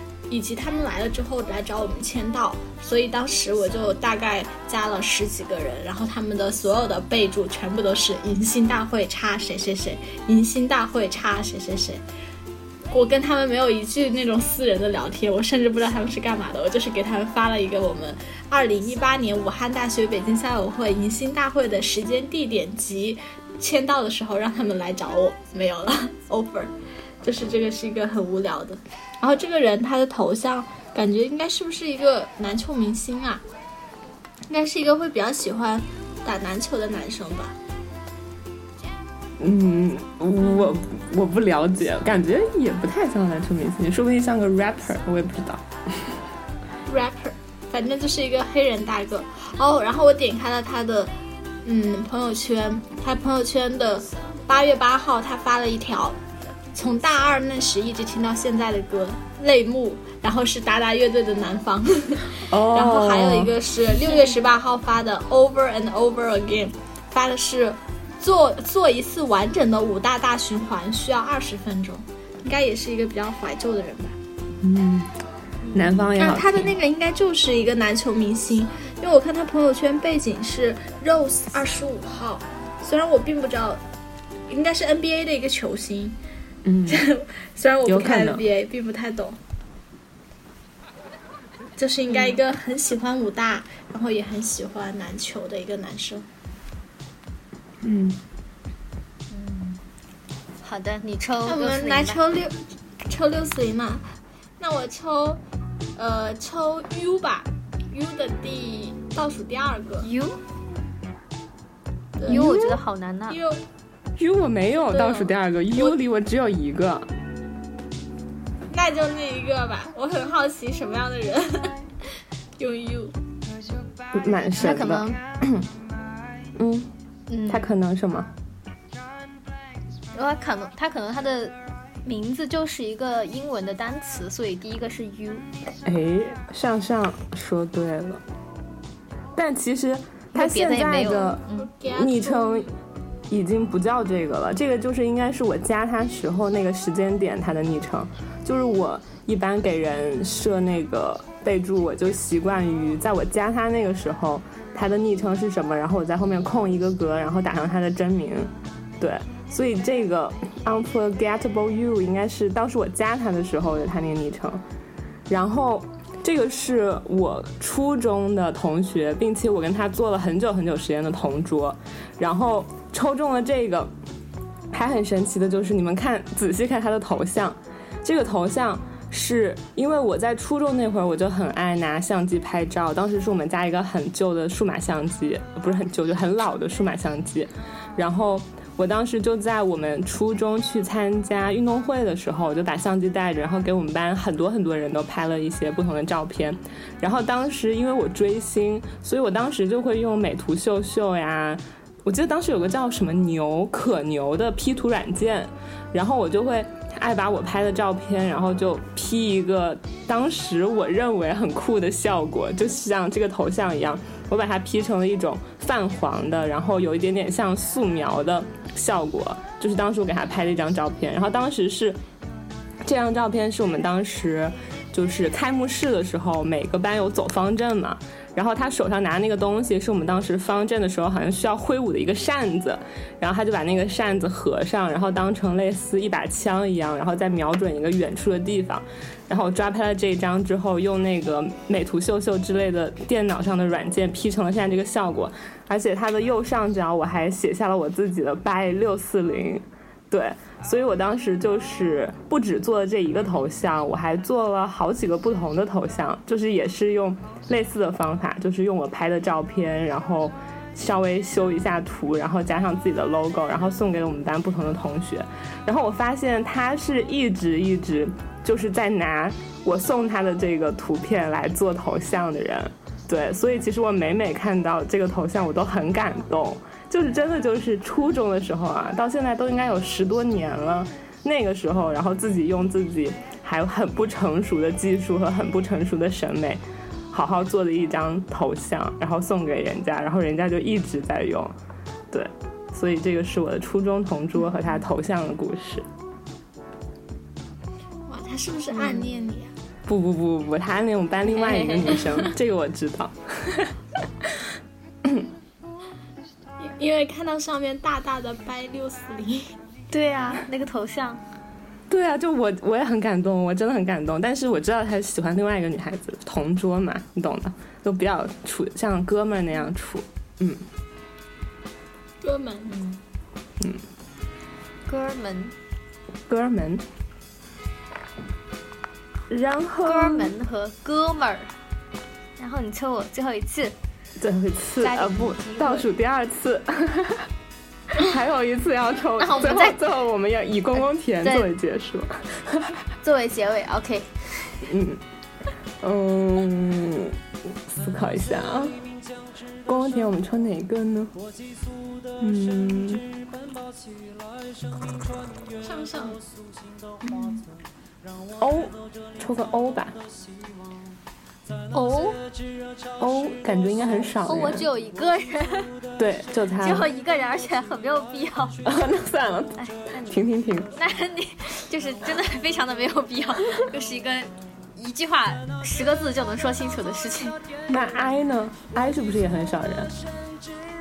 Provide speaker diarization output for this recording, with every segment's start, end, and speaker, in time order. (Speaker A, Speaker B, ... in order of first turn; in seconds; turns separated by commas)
Speaker A: 0.3-12.0, Speaker A: 12.9-26.7, Speaker A: 27.2-33.4, Speaker A: 34.5-37.5, Speaker B: 39.4-46.2, Speaker A: 46.9-51.1, Speaker A: 51.6-56.2, Speaker A: 56.7-74.2, Speaker B: 62.5-63.5, Speaker B: 74.6-75.1, Speaker C: 75.7-76.0, Speaker B: 75.7-76.7, Speaker A: 76.2-83.8, Speaker A: 84.5-86.2, Speaker B: 86.6-87.0, Speaker A: 86.9-89.4, Speaker B: 87.8-88.4, Speaker A: 91.8-96.2, Speaker C: 92.1-92.4, Speaker B: 97.8-98.2, Speaker C: 99.3-99.8, Speaker C: 100.6-102.2, Speaker A: 101.5-104.1, Speaker A: 104.6-105.4, Speaker A: 106.0-110.1, Speaker C: 110.0-110.4, Speaker A: 112.2-112.5, Speaker C: 112.3-113.4, Speaker B: 112.3-112.8, Speaker A: 113.3-113.6, Speaker B: 114.2-117.1, Speaker A: 118.7-121.8, Speaker A: 122.6-123.1, Speaker B: 124.1-125.7, Speaker C: 124.6-125.2, Speaker B: 126.5-126.9, Speaker C: 127.3-127.7, Speaker B: 127.5-128.3, Speaker C: 130.1-135.4, Speaker B: 135.8-138.2, Speaker B: 139.3-141.4, Speaker C: 140.3-141.7, Speaker A: 141.0-142.7, Speaker B: 141.9-142.7, Speaker B: 143.3-164.6, Speaker B: 165.3-173.9, Speaker B: 174.7-222.0, Speaker B: 222.8-291.5, Speaker B: 292.1-295.9, Speaker A: 298.1-299.5, Speaker C: 298.7-299.1, Speaker B: 299.9-304.5, Speaker C: 301.2-302.0, Speaker B: 305.0-305.3, Speaker A: 306.6-309.6, Speaker C: 309.9-311.2, Speaker B: 311.9-320.6, Speaker A: 322.2-322.7, Speaker C: 322.7-323.0, Speaker C: 324.9-325.5, Speaker B: 326.3-326.8, Speaker B: 329.3-330.3, Speaker C: 329.8-331.5, Speaker C: 332.4-333.7, Speaker B: 334.2-337.3, Speaker C: 334.8-335.9, Speaker B: 337.9-342.8, Speaker C: 339.2-339.8, Speaker C: 340.8-341.5, Speaker C: 343.0-344.6, Speaker B: 344.6-345.0, Speaker B: 345.8-348.8, Speaker B: 349.6-351.1, Speaker B: 352.2-353.0, Speaker A: 355.6-356.2, Speaker A: 357.0-357.4, Speaker B: 358.4-360.0, Speaker C: 361.7-362.2, Speaker B: 363.0-364.6, Speaker C: 364.3-365.7, Speaker B: 366.0-366.9, Speaker C: 366.6-368.6, Speaker B: 368.6-370.7, Speaker C: 369.6-370.1, Speaker C: 370.7-377.4, Speaker B: 377.7-379.9